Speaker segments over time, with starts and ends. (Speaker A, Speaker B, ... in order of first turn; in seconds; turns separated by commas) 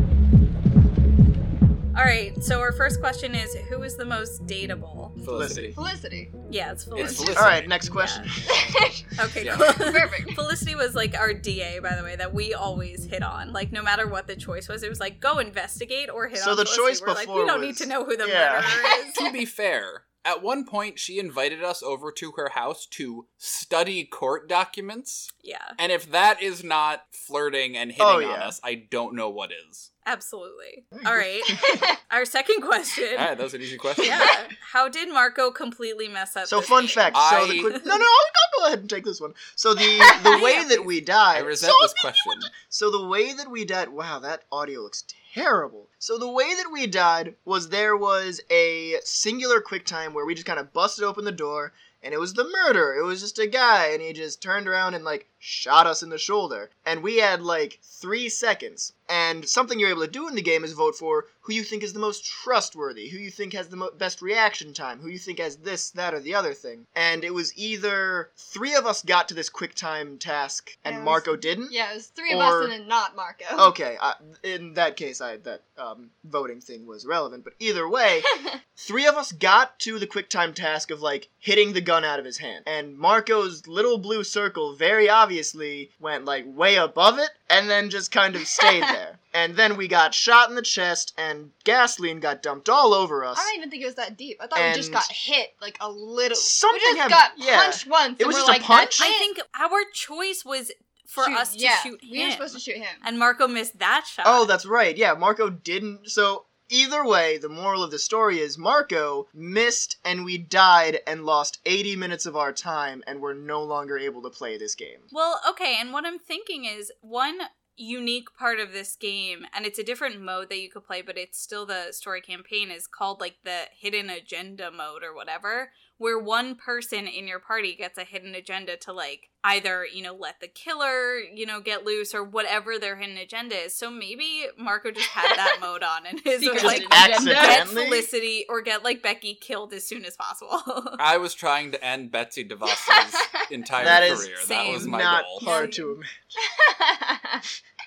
Speaker A: 1.9-5.2, Speaker B: 5.2-5.8, Speaker C: 5.2-5.8, Speaker D: 5.7-6.3, Speaker A: 6.5-8.3, Speaker B: 6.9-7.7, Speaker C: 7.3-8.6, Speaker D: 8.5-10.4, Speaker A: 9.2-19.2, Speaker B: 9.4-9.8, Speaker C: 16.4-18.9, Speaker B: 19.1-29.9, Speaker A: 25.4-25.8, Speaker C: 28.0-28.5, Speaker A: 30.0-33.3, Speaker C: 30.9-31.8, Speaker D: 31.6-31.9, Speaker B: 33.1-34.4, Speaker A: 34.0-37.2, Speaker C: 36.5-71.7, Speaker B: 37.1-37.8, Speaker A: 37.7-38.0, Speaker A: 40.2-40.9, Speaker B: 41.3-42.5, Speaker D: 70.8-73.7, Speaker C: 72.3-72.7, Speaker C: 73.5-93.5, Speaker D: 88.5-88.8, Speaker D: 93.3-99.3, Speaker C: 94.5-95.1, Speaker C: 96.4-99.1, Speaker A: 99.0-104.5, Speaker D: 101.2-103.0, Speaker C: 104.2-115.1, Speaker A: 115.1-141.0, Speaker D: 136.4-137.8, Speaker C: 136.6-138.1, Speaker B: 141.0-145.5, Speaker D: 142.8-143.4, Speaker C: 143.8-146.1, Speaker A: 143.9-145.7, Speaker D: 145.4-147.4